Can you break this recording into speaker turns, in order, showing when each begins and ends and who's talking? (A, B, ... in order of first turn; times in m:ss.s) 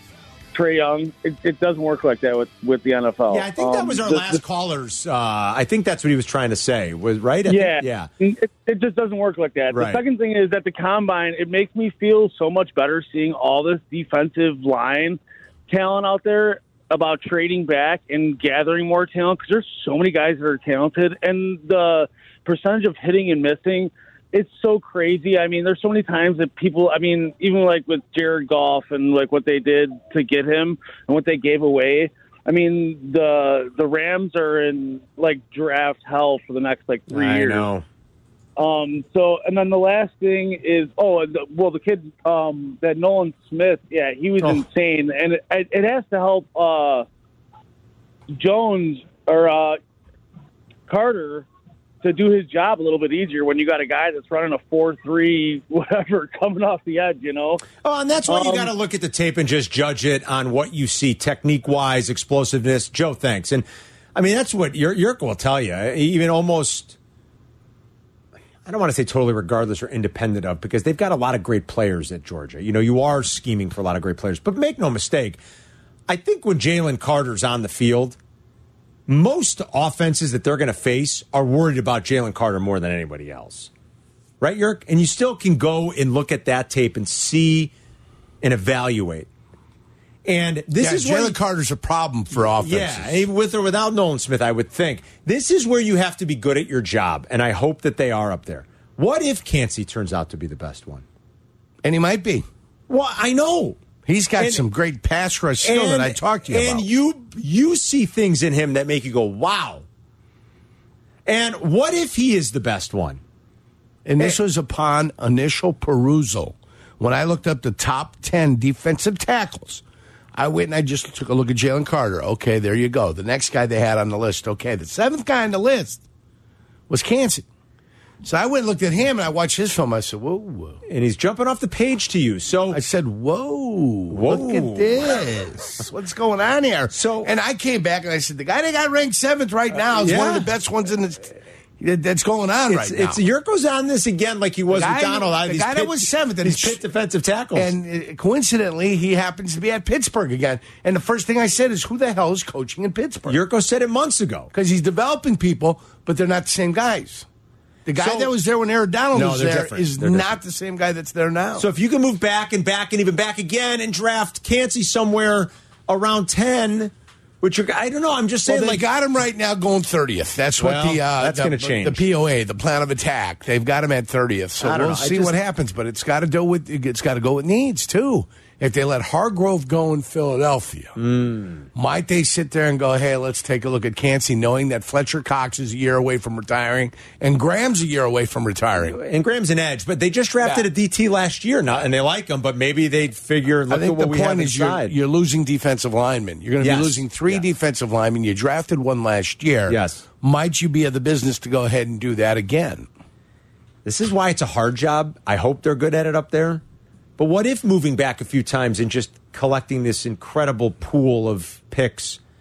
0:00.5-0:04.4 A
0:03.3-0:08.1 B
0:07.5-0:37.7 A
0:09.7-0:10.0 B
0:37.1-0:37.8 B
0:38.6-0:47.1 A
0:48.3-0:49.8 A
0:50.9-0:51.5 A
0:52.0-0:57.6 A
0:57.8-1:07.0 B
0:58.3-0:58.7 A
1:08.6-1:15.4 B
1:16.1-1:18.2 B
1:19.1-1:23.7 B
1:24.4-1:27.7 B
1:28.4-1:29.3 B
1:30.2-1:31.4 B
1:30.8-1:33.2 C
1:32.3-1:41.0 B
1:41.8-1:42.5 C
1:42.9-1:43.8 B
1:44.1-1:46.8 C
1:44.4-1:44.6 B
1:45.6-1:49.8 B
1:51.3-1:53.2 B
1:54.0-1:59.8 C
2:00.4-2:06.0 C
2:06.9-2:07.4 C
2:08.2-2:10.8 C
2:10.9-2:12.8 B
2:12.7-2:23.2 C
2:14.1-2:15.2 B
2:16.9-2:17.3 B
2:20.0-2:20.5 B
2:22.7-2:27.7 B
2:24.7-2:26.8 C
2:27.6-2:33.4 C
2:33.3-2:34.5 B
2:34.5-2:37.2 C
2:37.9-2:41.7 C
2:38.0-2:38.3 B
2:39.1-2:40.4 B
2:41.6-2:48.9 B
2:48.5-3:01.0 C
2:50.6-2:52.0 B
2:54.6-2:55.4 B
3:01.0-3:01.7 B
3:01.8-3:09.0 C
3:08.8-3:15.0 B
3:13.7-3:22.9 C
3:16.6-3:17.5 B
3:19.7-3:20.0 B
3:23.8-3:26.6 B
3:27.2-3:32.2 B